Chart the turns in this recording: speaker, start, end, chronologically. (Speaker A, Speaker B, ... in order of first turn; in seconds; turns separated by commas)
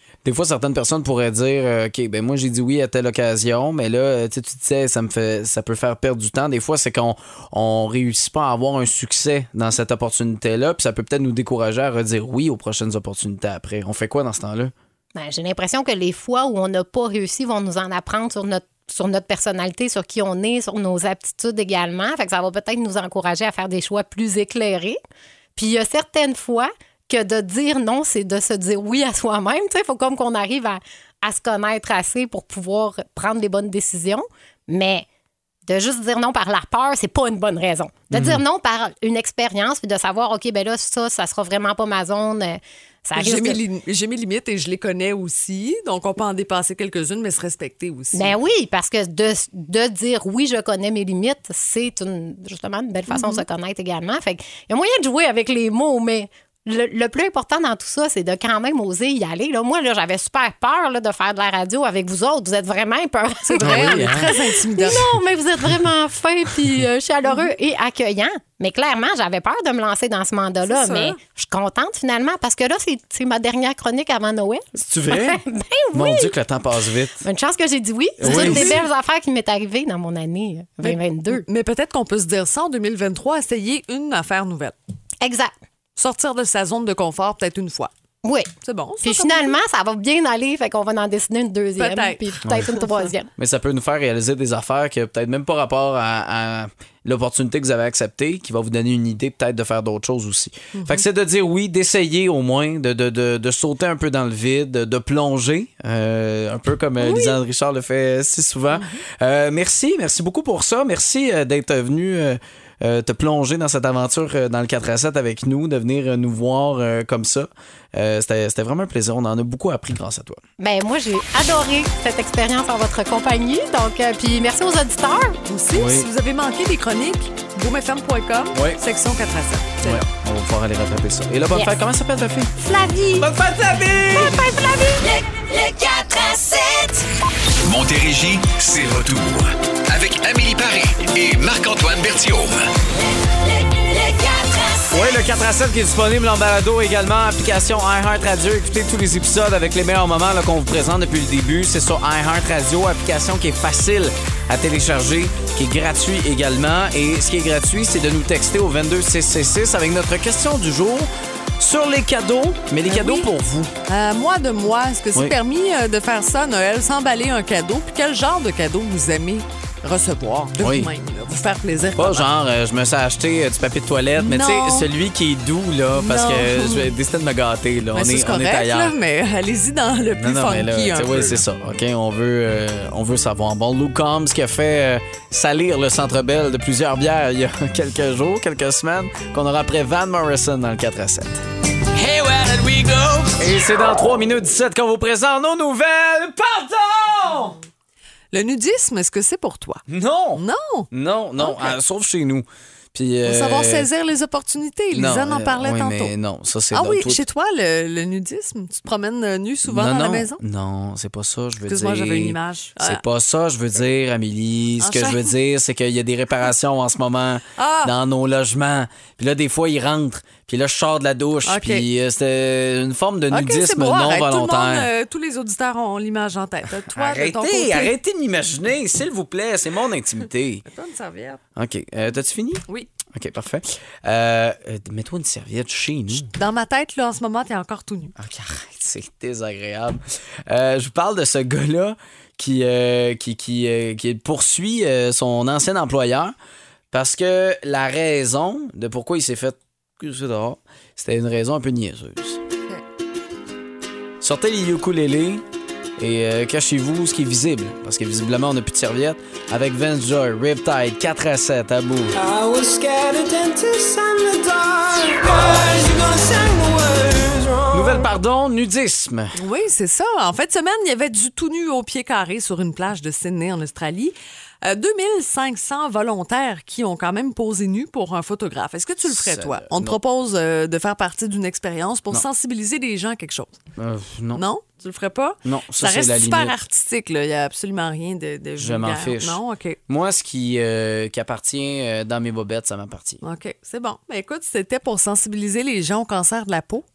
Speaker A: 0.2-14.7, Speaker B: 15.2-25.0, Speaker B: 25.6-35.1, Speaker B: 35.7-43.6, Speaker A: 38.1-38.4, Speaker C: 43.2-48.4, Speaker B: 48.1-76.3, Speaker C: 53.1-53.4, Speaker C: 63.5-65.1, Speaker A: 63.6-64.3, Speaker C: 70.7-71.2, Speaker A: 74.8-75.4, Speaker A: 75.9-77.2, Speaker B: 77.2-81.4, Speaker A: 78.2-78.8, Speaker C: 78.2-78.7, Speaker C: 80.8-84.8, Speaker B: 85.2-85.5, Speaker C: 86.0-87.9, Speaker B: 88.2-88.5, Speaker C: 88.6-89.6, Speaker B: 89.0-93.3, Speaker C: 91.8-92.9, Speaker A: 93.4-120.4, Speaker C: 100.8-101.0, Speaker C: 107.0-107.3, Speaker C: 108.7-109.0, Speaker B: 120.6-125.4, Speaker C: 125.5-130.0, Speaker A: 125.7-126.1, Speaker A: 128.5-128.8, Speaker A: 129.8-132.5, Speaker B: 132.6-133.3, Speaker A: 133.2-134.5, Speaker B: 134.1-135.0, Speaker D: 134.9-137.1, Speaker E: 137.6-142.7, Speaker D: 143.0-145.1, Speaker A: 144.9-163.7, Speaker C: 162.9-163.3, Speaker C: 163.9-172.3, Speaker A: 170.6-170.9, Speaker A: 172.0-178.9, Speaker C: 174.2-174.9, Speaker C: 176.0-176.9, Speaker C: 177.9-181.4, Speaker A: 180.1-191.4, Speaker A: 191.9-197.6, Speaker F: 192.3-193.3, Speaker C: 198.3-201.8, Speaker A: 199.9-203.9, Speaker C: 203.2-206.1, Speaker A: 204.9-207.2, Speaker C: 206.7-210.4, Speaker A: 209.7-224.9, Speaker C: 211.7-213.0, Speaker C: 214.8-215.3, Speaker C: 217.6-217.9, Speaker C: 221.4-221.9, Speaker C: 223.3-227.9, Speaker A: 226.9-230.7, Speaker C: 230.7-231.4, Speaker A: 231.6-236.3, Speaker C: 236.3-238.2, Speaker A: 238.2-246.3, Speaker A: 246.9-252.4, Speaker A: 254.2-255.4, Speaker A: 256.0-262.2, Speaker F: 262.1-268.1, Speaker A: 267.7-269.4, Speaker C: 269.4-283.6, Speaker A: 279.1-280.0, Speaker A: 283.8-284.4, Speaker C: 284.3-289.8, Speaker A: 285.4-286.6, Speaker A: 288.6-293.2, Speaker C: 293.2-296.9